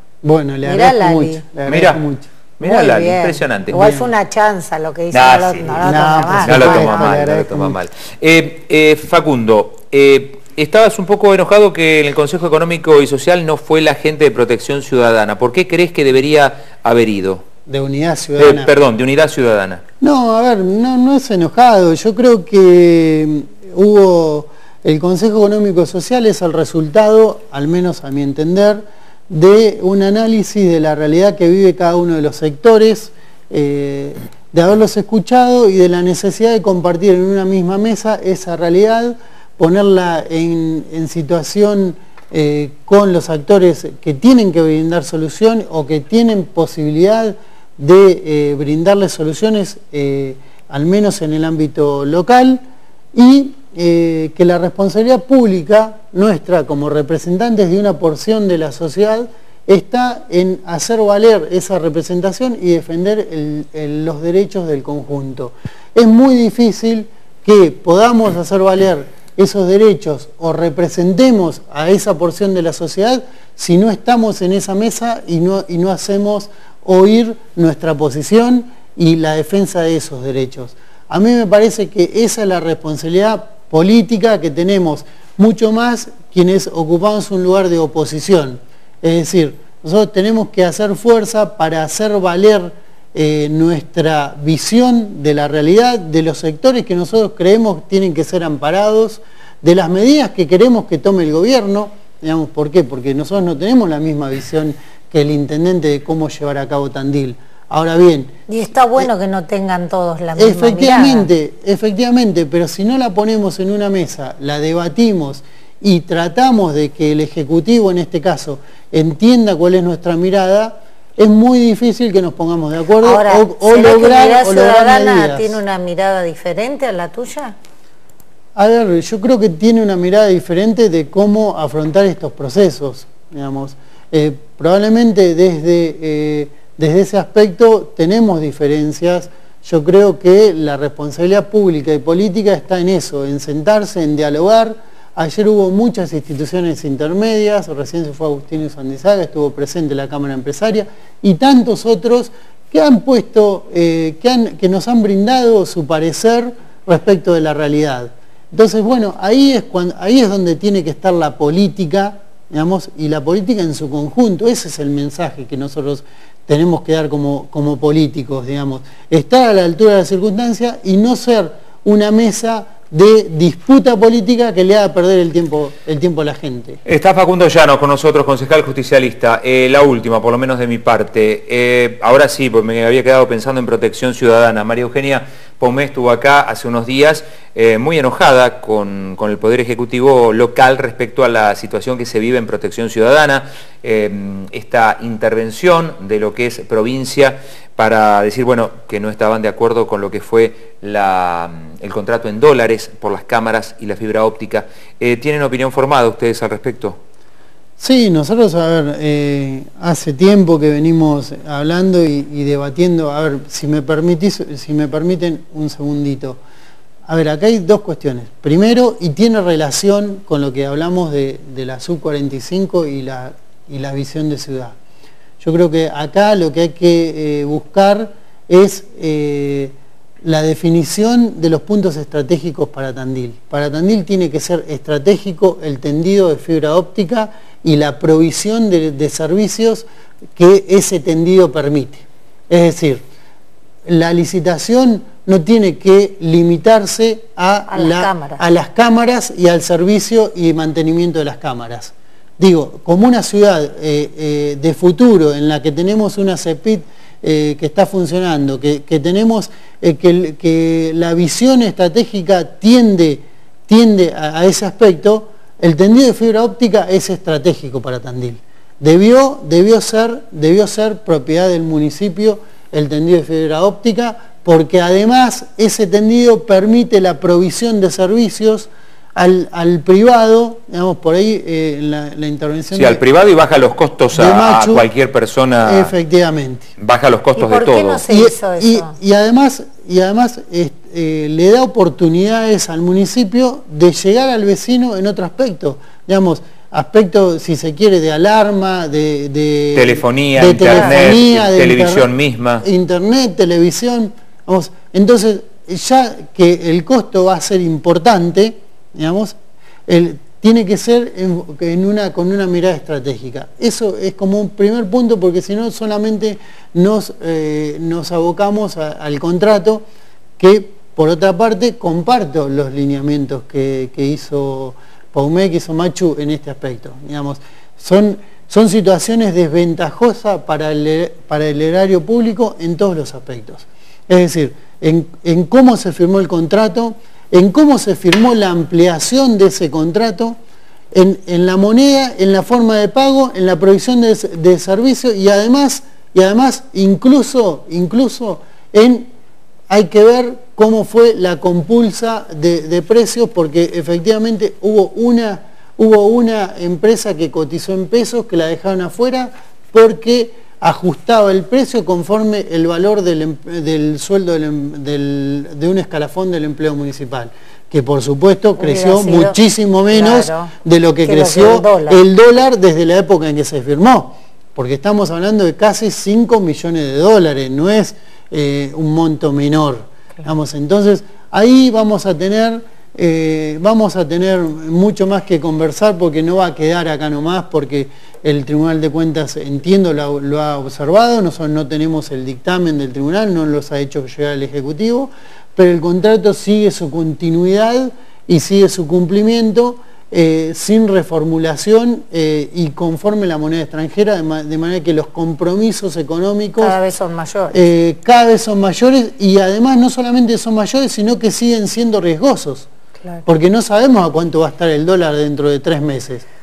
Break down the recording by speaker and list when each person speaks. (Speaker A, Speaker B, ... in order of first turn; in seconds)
Speaker A: 0.2-2.3, 3.7-4.0, 5.7-7.8, 17.6-18.7, 20.0-108.4, 110.3-125.6, 128.6-176.8, 207.8-216.4, 217.1-224.7, 225.4-243.0, 243.8-283.0, 284.1-284.8, 285.6-286.7, 288.1-302.1, 302.6-309.4, 309.9-319.8, 320.4-340.4, 340.9-349.1, 349.7-406.8, 407.5-412.7, 413.2-416.2
Speaker B: 0.6-1.4, 2.6-7.1, 108.5-111.3, 123.0-127.5, 247.7-248.4, 287.4-288.9, 300.7-301.1, 368.6-369.4, 369.9-370.5, 371.0-372.0, 406.6-407.6
Speaker C: 1.6-2.0, 2.6-4.0, 5.1-17.4, 18.4-19.8, 176.8-207.0, 282.7-285.9, 286.8-288.0, 299.7-302.6